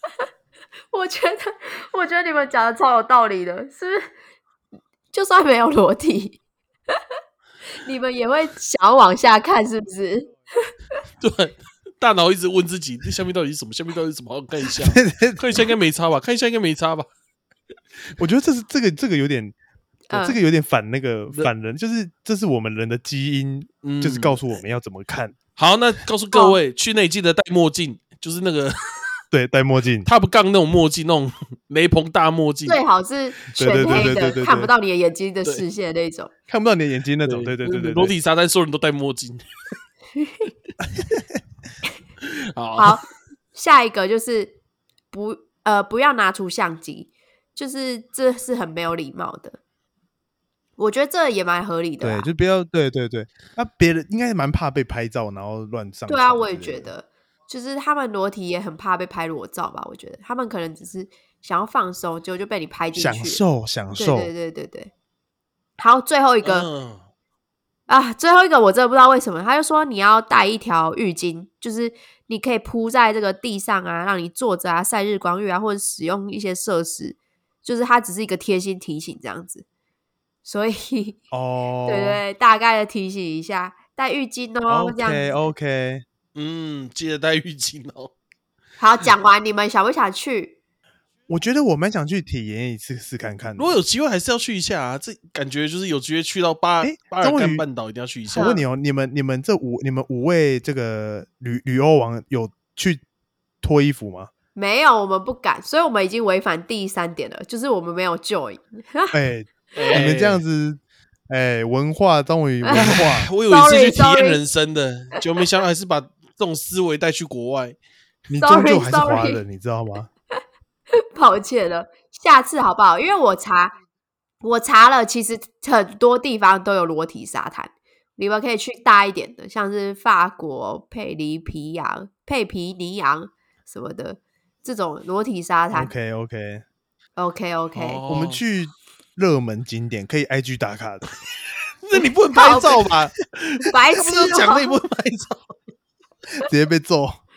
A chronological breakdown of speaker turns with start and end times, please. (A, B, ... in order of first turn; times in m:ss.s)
0:00.9-0:04.1 A
0:05.1-0:06.4 A
0:07.8-0:10.3 A
0:11.2-0:17.1 B
0:14.8-0:15.7 C
0:18.2-0:19.6 C
0:20.1-0:20.4 A
0:20.1-0:25.4 C
0:23.8-0:24.4 B
0:25.6-0:28.8 B
0:26.3-0:26.6 A
0:29.3-0:30.1 C
0:30.1-0:32.8 B
0:32.7-0:36.3 A
0:33.6-0:34.7 C
0:33.8-0:34.1 B
0:36.5-0:38.1 C
0:37.2-0:39.4 B
0:40.2-0:40.5 A
0:42.2-0:42.9 B
0:42.8-0:44.6 A
0:45.1-0:49.6 A
0:50.8-0:52.3 A
0:52.0-0:56.9 C
0:56.1-1:03.4 A
1:03.0-1:04.3 C
1:04.0-1:04.9 A
1:05.8-1:06.7 A
1:06.4-1:07.1 B
1:07.9-1:19.7 A
1:20.4-1:21.2 A
1:21.3-1:22.2 C
1:21.9-1:25.5 A
1:24.7-1:26.0 C
1:26.4-1:28.1 B
1:28.8-1:30.6 A
1:31.3-1:33.8 C
1:33.6-1:38.6 B
1:36.8-1:37.6 C
1:38.3-1:43.0 C
1:38.3-1:38.7 A
1:43.6-1:44.3 C
1:44.6-1:49.2 A
1:49.1-1:53.3 C
1:49.8-1:50.4 B
1:52.7-1:54.4 A
1:52.7-1:57.8 B
1:58.3-2:00.1 C
1:58.4-1:59.4 A
2:01.1-2:03.7 A
2:04.4-2:15.9 A
2:15.7-2:16.6 C
2:17.2-2:18.0 A
2:17.7-2:18.4 B
2:18.1-2:21.0 C
2:21.8-2:25.5 B
2:22.3-2:22.9 A
2:23.7-2:24.8 A
2:26.4-2:27.2 C